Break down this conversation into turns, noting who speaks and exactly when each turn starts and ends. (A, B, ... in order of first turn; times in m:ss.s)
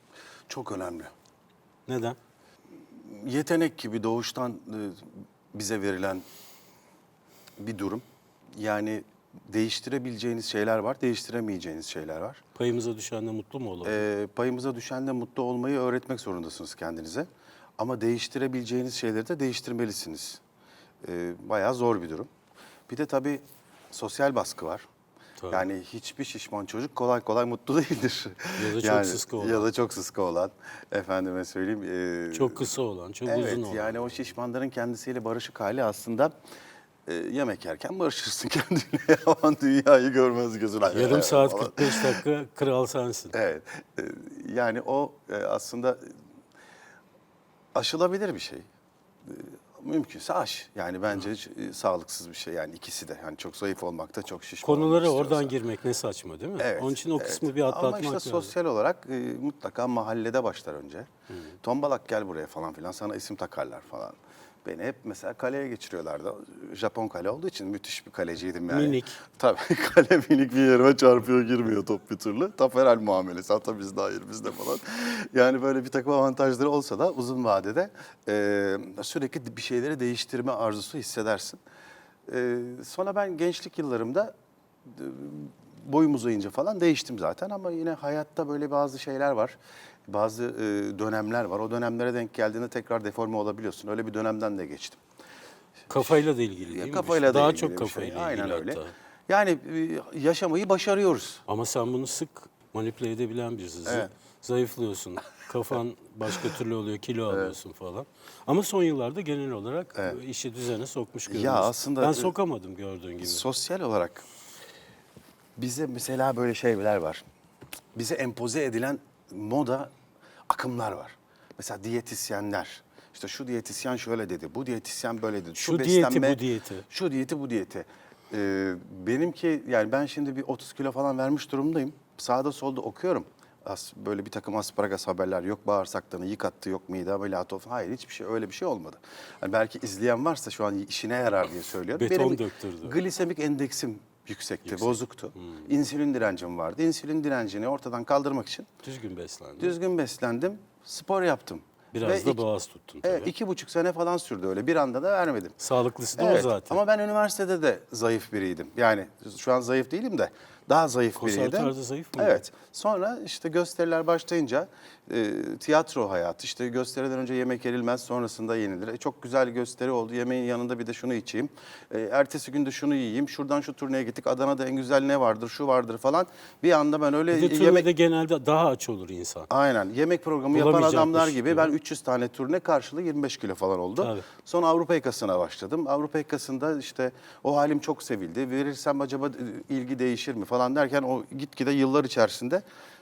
0:00.5-0:01.1 A
0:01.9-0:02.2 B
0:03.0-0:06.2 A
0:07.6-0:08.0 A
0:08.6-0:12.4 A
0:12.6-0:14.0 B
0:13.8-0:20.4 A
0:21.0-0:22.3 A
0:22.9-0:24.8 A
0:25.4-0:25.6 B
0:25.5-0:36.3 A
0:28.6-0:29.7 B
0:32.3-0:34.3 B
0:37.0-0:42.2 A
0:40.9-0:43.3 B
0:43.3-0:46.1 A
0:47.7-0:48.6 A
0:49.2-0:55.6 A
0:54.6-0:58.5 B
0:56.6-1:01.1 A
1:01.6-1:21.6 A
1:08.7-1:09.2 B
1:22.3-1:24.3 A
1:24.8-1:29.6 A
1:30.1-1:35.0 A
1:35.9-1:38.9 B
1:35.9-1:41.4 A
1:41.5-1:53.4 B
1:43.9-1:44.1 A
1:51.3-1:52.3 A
1:53.2-1:54.2 A
1:55.6-1:57.2 A
1:58.0-1:59.9 A
2:00.5-2:28.7 A
2:05.6-2:06.8 B
2:21.9-2:23.0 B
2:24.7-2:25.7 B
2:28.8-2:29.8 B
2:29.6-2:32.4 A
2:31.9-2:33.3 B
2:33.0-2:35.6 A
2:35.6-2:36.8 B
2:36.2-2:57.9 A
2:41.2-2:42.4 B
2:57.3-2:59.5 B
2:59.5-3:12.6 A
3:00.5-3:01.7 B
3:04.0-3:04.2 B